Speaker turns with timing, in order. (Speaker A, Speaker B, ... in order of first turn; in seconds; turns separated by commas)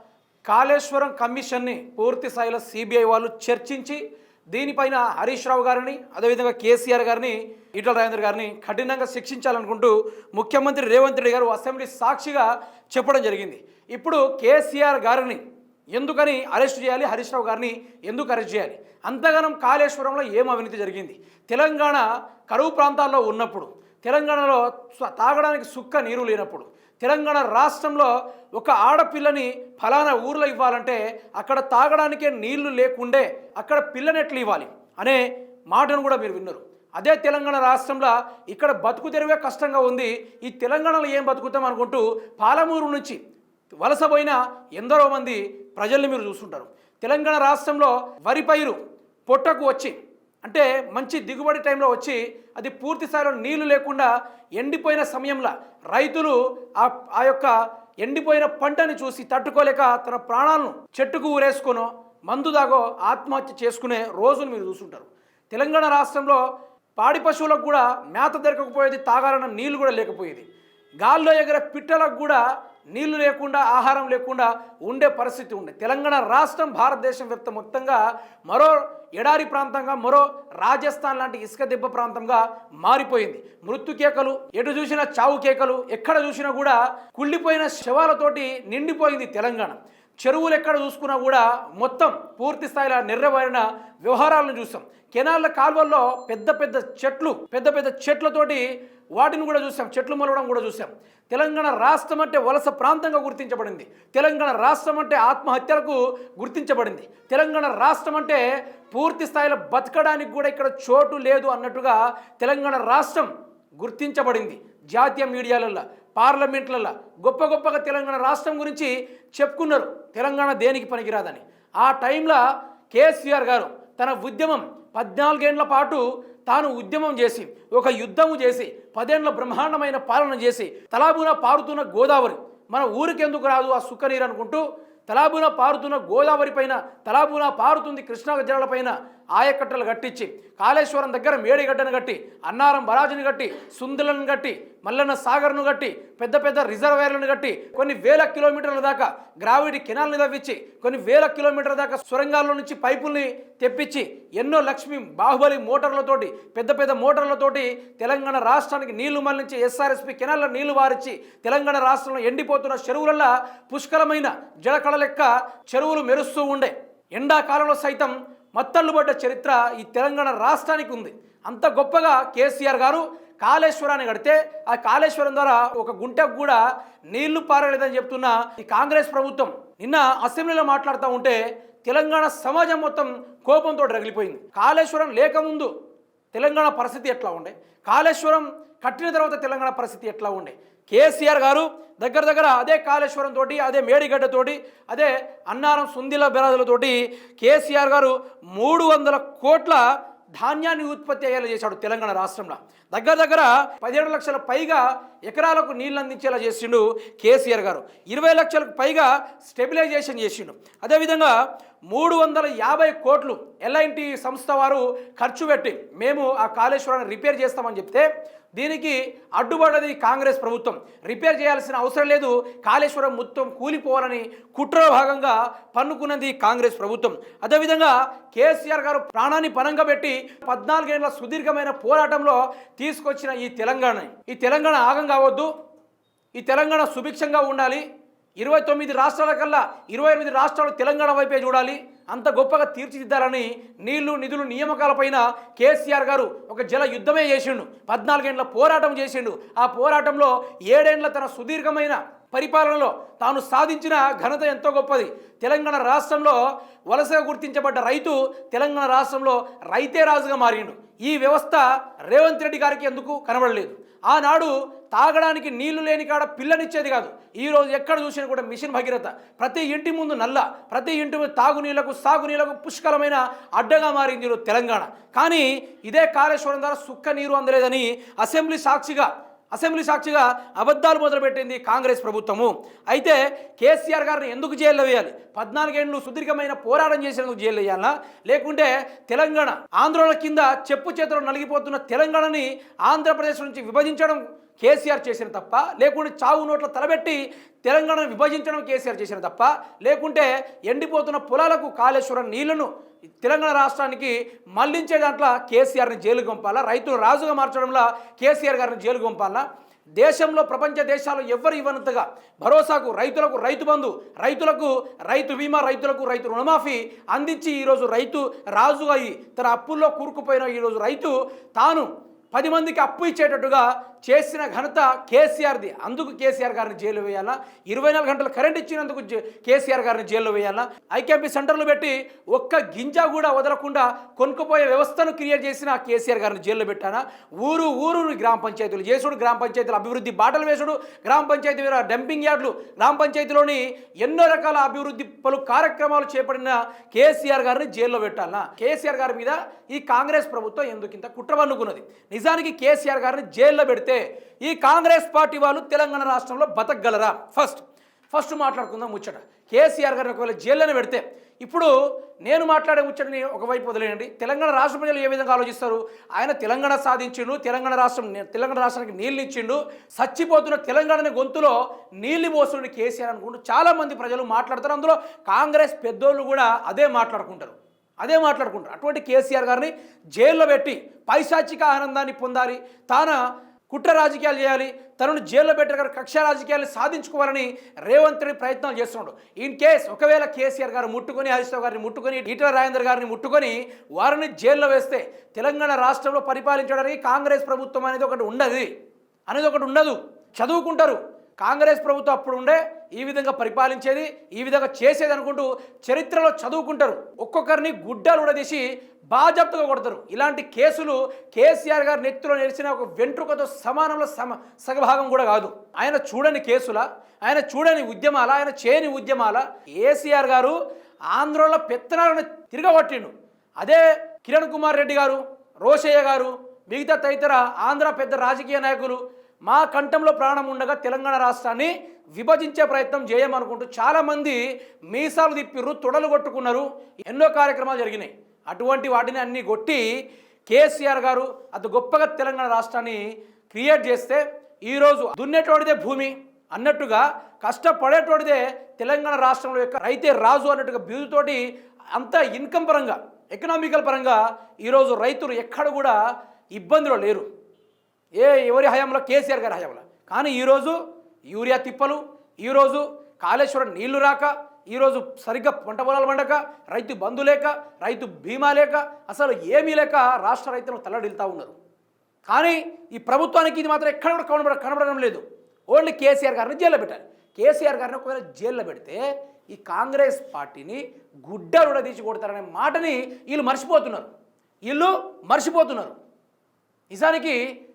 Speaker A: 0.5-15.4, Speaker A: 15.9-43.2, Speaker A: 43.8-66.4, Speaker A: 67.0-70.5, Speaker A: 71.0-122.4, Speaker A: 122.9-176.6, Speaker A: 177.1-185.7, Speaker A: 186.3-199.8, Speaker A: 200.4-235.5, Speaker A: 236.3-237.8, Speaker A: 238.4-302.7, Speaker A: 303.2-309.4, Speaker A: 310.0-361.7, Speaker A: 362.2-398.7, Speaker A: 399.3-420.6, Speaker A: 421.1-439.9, Speaker A: 440.5-451.4, Speaker A: 452.0-456.0, Speaker A: 456.5-457.3, Speaker A: 458.2-460.8, Speaker A: 461.3-471.6, Speaker A: 472.3-484.1, Speaker A: 484.7-486.0, Speaker A: 486.9-487.4